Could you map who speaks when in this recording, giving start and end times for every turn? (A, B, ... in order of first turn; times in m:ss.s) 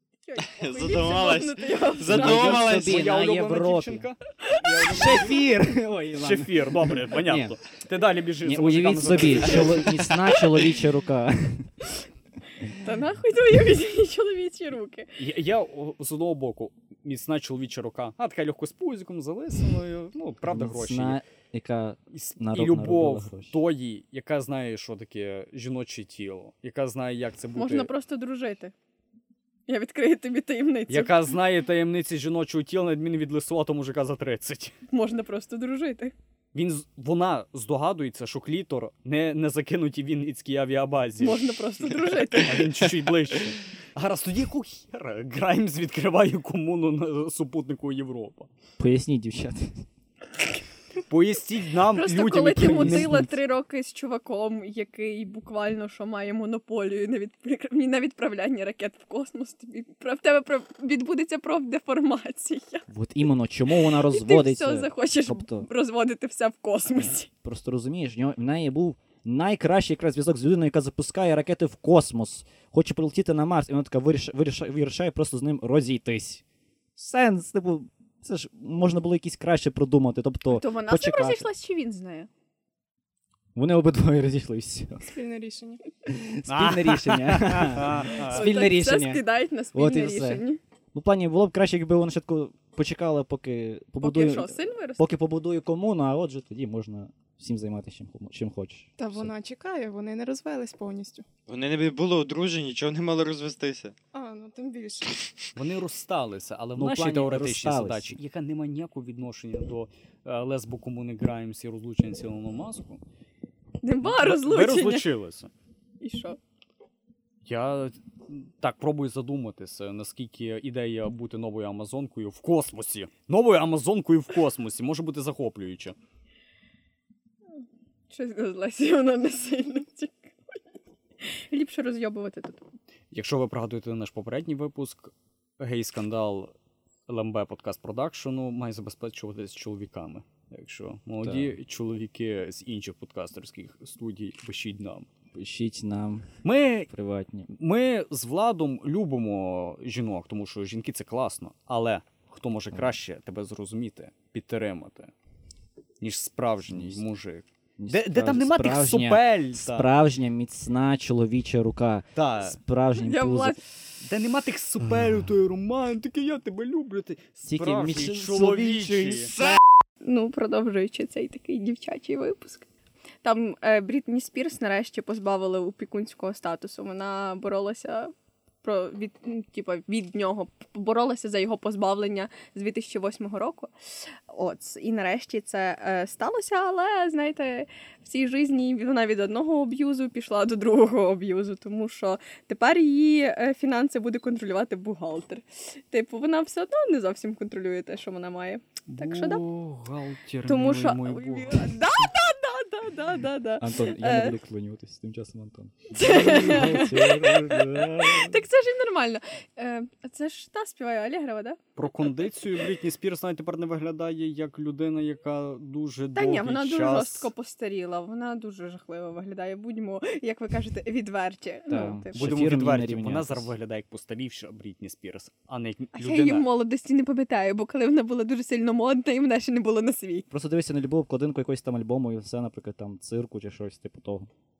0:00.3-0:02.7 A
0:00.4-0:03.1 B
0:02.0-0:04.1 C
0:02.5-0:10.7 D
0:04.9-0:07.6 C
0:08.4-0:11.7 C
0:12.7-0:15.1 A
0:15.2-0:21.2 D
0:20.5-0:23.5 C
0:22.1-0:27.9 D
0:27.6-0:28.7 A
0:29.7-0:31.1 A
0:30.9-0:34.8 D
0:34.9-0:36.1 A
0:36.5-0:41.4 D
0:41.2-0:42.6 A
0:42.3-0:48.5 D
0:48.8-0:49.8 C
0:51.1-0:53.2 D
0:52.0-1:02.8 A
0:52.6-0:53.3 C
1:02.9-1:05.7 C
1:03.9-1:07.3 A
1:07.0-1:16.4 C
1:17.0-1:21.5 C
1:20.5-1:22.3 A
1:23.6-1:25.1 C
1:25.1-1:25.8 E
1:26.1-1:39.3 C
1:26.5-1:28.5 D
1:28.3-1:30.6 A
1:34.0-1:35.2 A
1:39.0-1:41.3 E
1:41.5-1:44.0 B
1:44.1-1:45.2 E
1:45.6-1:53.0 D
1:46.8-1:48.2 C
1:53.8-1:55.1 A
1:54.0-1:55.5 D
1:56.0-1:56.4 A
1:57.4-2:06.0 D
2:08.1-2:10.4 A
2:11.2-2:12.7 A
2:13.1-2:16.5 D
2:17.1-2:25.1 D
2:21.2-2:21.5 C
2:25.3-2:26.3 C
2:26.4-2:26.9 D
2:26.9-2:27.5 C
2:27.5-2:35.1 D
2:36.0-2:39.9 D
2:36.7-2:37.0 C
2:37.8-2:43.6 C
2:42.2-2:42.6 D
2:43.0-2:43.6 A
2:44.0-2:49.3 D
2:47.5-2:49.6 C
2:50.0-2:52.7 A
2:53.2-3:19.4 A
3:18.9-3:22.1 D
3:20.5-3:24.4 A
3:23.6-3:28.4 C
3:25.9-3:31.6 A
3:26.0-3:27.1 D
3:31.8-3:37.3 D
3:36.1-3:42.2 A
3:41.7-3:43.5 C
3:42.1-3:46.5 D
3:46.0-3:50.3 A
3:50.3-3:54.3 C